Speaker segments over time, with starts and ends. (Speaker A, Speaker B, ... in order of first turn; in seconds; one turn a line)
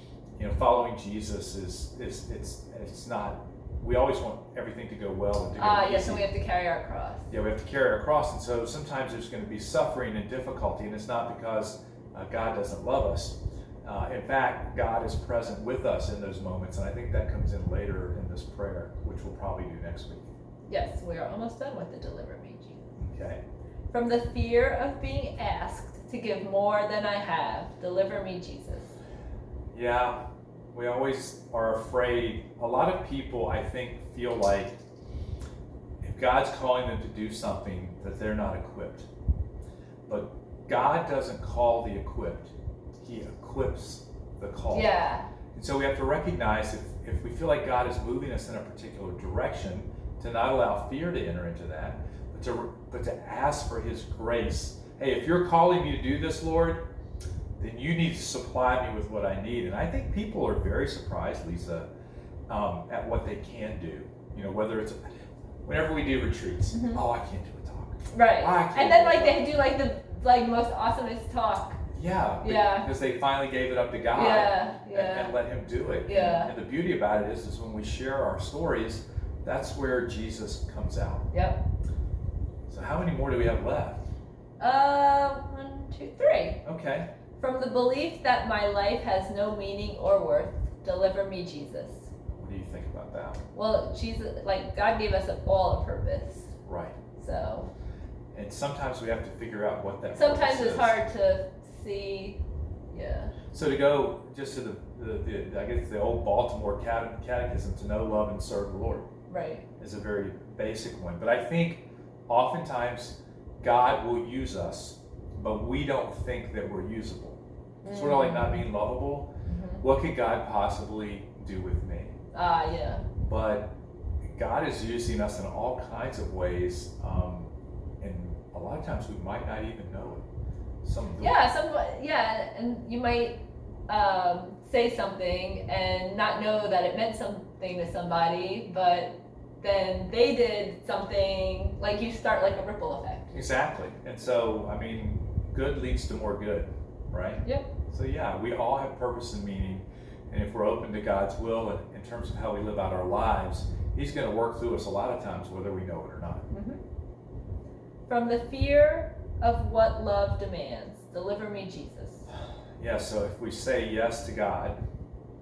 Speaker A: 0.4-6.3
Speaker B: 5.6-7.3
Speaker A: 7.3-20.3
Speaker B: 20.7-22.9
Speaker A: 23.0-23.4
Speaker B: 23.9-28.9
Speaker A: 29.7-30.2
Speaker A: 30.7-34.8
Speaker A: 36.0-39.1
Speaker A: 40.1-44.9
Speaker B: 44.7-45.3
Speaker A: 45.5-56.8
Speaker A: 57.6-61.9
Speaker A: 62.5-65.0
Speaker A: 65.6-69.5
Speaker B: 66.7-67.0
Speaker B: 68.1-71.8
Speaker A: 71.9-81.3
Speaker B: 72.4-72.9
Speaker B: 74.1-75.3
Speaker B: 76.0-76.5
Speaker B: 81.3-81.6
Speaker A: 82.7-84.0
Speaker B: 84.6-86.6
Speaker A: 86.6-87.1
Speaker B: 87.4-92.1
Speaker A: 92.3-93.4
Speaker B: 93.5-96.5
Speaker A: 96.6-96.9
Speaker B: 97.2-97.7
Speaker A: 98.3-101.0
Speaker B: 100.1-102.4
Speaker B: 102.9-103.3
Speaker A: 103.5-109.1
Speaker B: 109.3-109.7
Speaker A: 109.8-119.3
Speaker B: 117.8-118.6
Speaker B: 119.5-119.8
Speaker A: 119.8-122.2
Speaker B: 122.3-123.0
Speaker A: 123.2-123.7
Speaker A: 124.3-127.5
Speaker A: 128.0-130.2
Speaker A: 130.8-131.4
Speaker B: 131.2-143.3
Speaker A: 143.3-156.4
Speaker B: 147.4-147.7
Speaker B: 156.5-156.8
Speaker B: 158.1-162.3
Speaker A: 162.8-164.8